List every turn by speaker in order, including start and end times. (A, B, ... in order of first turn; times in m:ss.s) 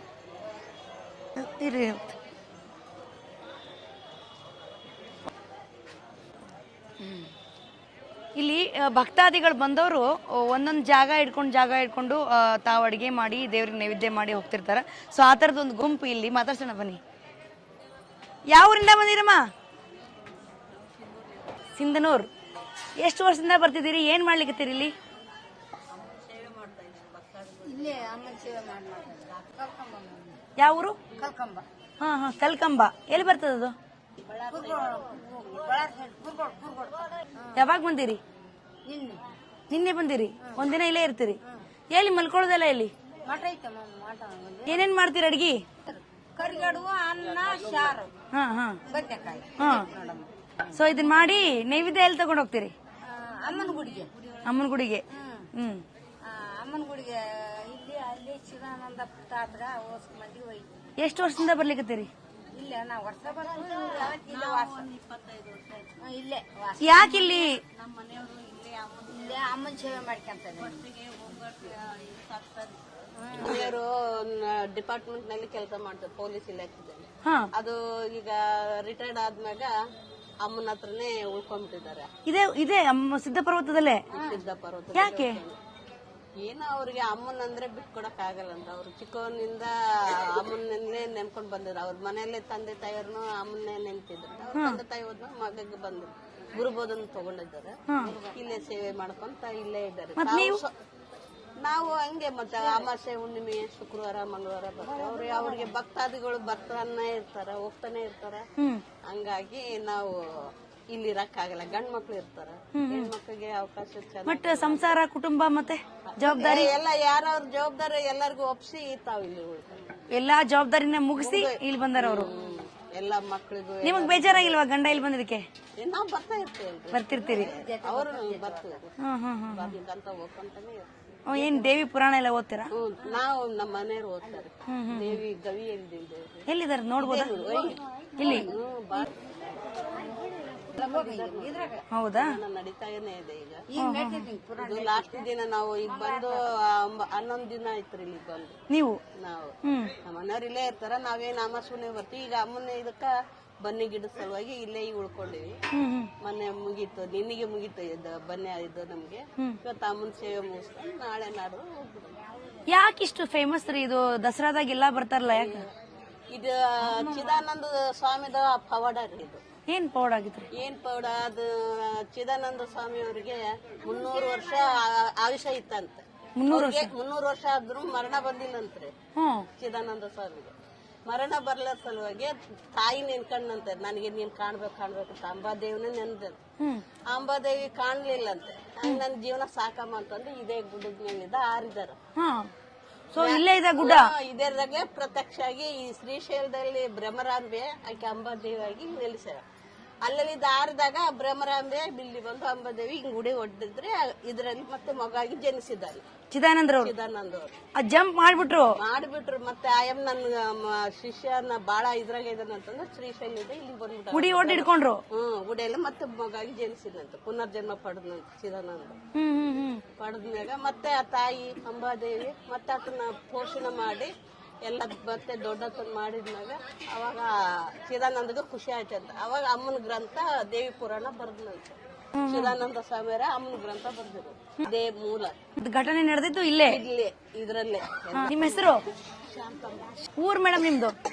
0:01.4-0:02.2 A
0:07.0-0:07.3 A
0:08.4-0:17.0 A
0:18.5-0:19.5 A
0:21.8-0:22.3 A
0:23.0-0:24.9 A
0:26.0-0:27.5 B
0:27.6-0:30.4 C
0:30.6-0:31.0 A
0:31.2-0:31.6 C
0:32.0-0:33.8 A
0:34.3-0:37.6 C
0:34.5-0:35.0 B
0:37.6-0:38.2 A
0:38.9-0:39.2 C
0:39.7-0:41.4 A
0:41.9-0:42.9 A
0:43.3-0:44.8 C
0:44.7-0:45.6 A
0:45.9-0:48.1 C
0:48.3-0:48.8 A
0:48.9-0:50.2 C
0:49.6-0:49.9 A
0:50.7-0:52.8 A
0:53.1-0:54.1 C
0:54.4-0:55.0 A
0:55.1-0:55.5 C
0:55.5-0:55.8 A
0:56.3-1:00.7 C
1:01.0-1:02.1 A
1:02.6-1:04.9 C
1:03.6-1:04.9 B
1:06.0-1:07.0 C
1:06.8-1:07.6 A
1:09.1-1:10.8 C
1:13.2-1:13.6 C
1:13.4-1:17.0 B
1:17.2-1:17.5 A
1:17.6-1:19.7 B
1:20.4-1:22.1 B
1:22.3-1:24.0 A
1:24.1-1:25.6 B
1:24.9-1:25.4 A
1:26.4-1:37.7 B
1:37.9-1:38.2 A
1:38.3-1:40.7 B
1:40.2-1:40.6 A
1:41.6-1:48.4 B
1:44.9-1:45.7 C
1:48.6-1:48.8 A
1:49.1-1:50.2 B
1:50.9-1:55.0 B
1:52.8-1:53.1 A
1:54.3-1:56.7 A
1:56.1-1:59.8 B
2:00.1-2:02.3 A
2:01.2-2:04.6 B
2:03.8-2:05.5 A
2:05.8-2:08.9 B
2:06.9-2:07.6 A
2:07.4-2:08.6 C
2:09.0-2:09.7 A
2:09.5-2:11.7 B
2:11.3-2:12.7 A
2:12.7-2:16.3 B
2:14.7-2:15.2 A
2:16.5-2:17.3 A
2:17.0-2:19.1 B
2:17.4-2:18.4 C
2:18.2-2:18.5 A
2:20.6-2:21.8 C
2:20.8-2:23.6 B
2:21.9-2:22.4 A
2:23.7-2:25.3 C
2:23.8-2:24.3 A
2:24.6-2:28.6 B
2:25.9-2:26.4 C
2:28.7-2:29.0 A
2:29.2-2:29.5 B
2:29.6-2:29.9 A
2:30.0-2:33.1 B
2:33.6-2:35.5 B
2:35.7-2:36.1 A
2:36.2-2:42.2 B
2:42.7-2:45.6 A
2:45.3-2:45.7 B
2:46.3-2:49.4 B
2:46.9-2:47.4 C
2:49.7-2:50.5 A
2:50.6-2:58.9 B
2:56.4-2:56.9 A
2:59.2-2:59.5 A
2:59.6-3:00.5 B
3:01.1-3:06.4 B
3:06.6-3:06.8 A
3:07.1-3:12.0 B
3:12.2-3:12.5 A
3:13.1-3:14.1 A
3:13.2-3:19.4 B
3:20.0-3:26.0 B
3:26.3-3:26.9 A
3:26.8-3:27.5 B
3:27.8-3:28.8 A
3:28.8-3:39.0 B
3:34.1-3:35.0 A
3:39.2-3:39.8 A
3:40.0-3:44.1 B
3:44.6-3:47.3 B
3:47.8-3:55.4 B
3:52.2-3:52.6 A
3:55.6-3:56.8 A
3:56.7-3:58.7 B
3:58.1-3:58.8 A
3:59.3-4:00.0 B
4:00.2-4:01.0 A